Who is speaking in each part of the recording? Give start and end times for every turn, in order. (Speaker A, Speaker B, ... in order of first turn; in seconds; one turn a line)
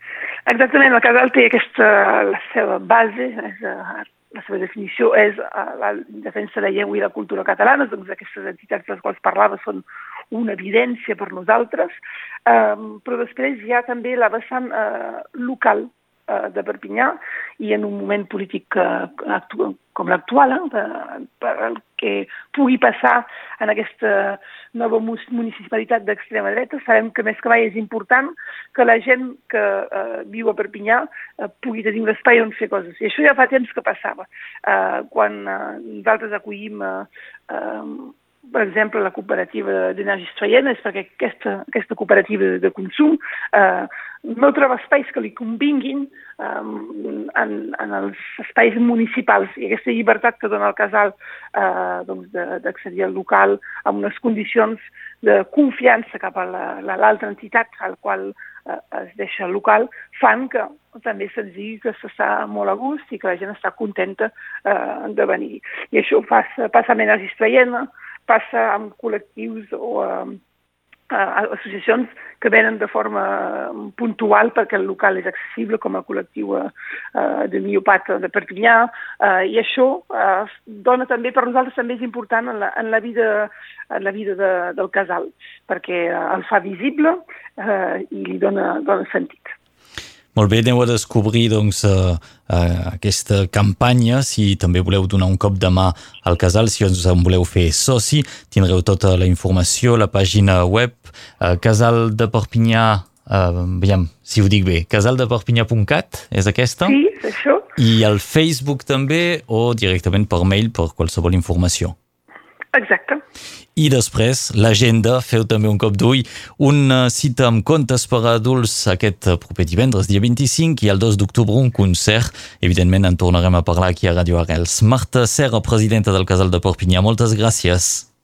Speaker A: 0.5-70.4
Speaker A: 71.1-89.5
Speaker B: 90.3-107.0
Speaker A: 106.8-107.7
Speaker B: 107.8-112.0
Speaker A: 112.7-113.2
Speaker B: 113.8-128.1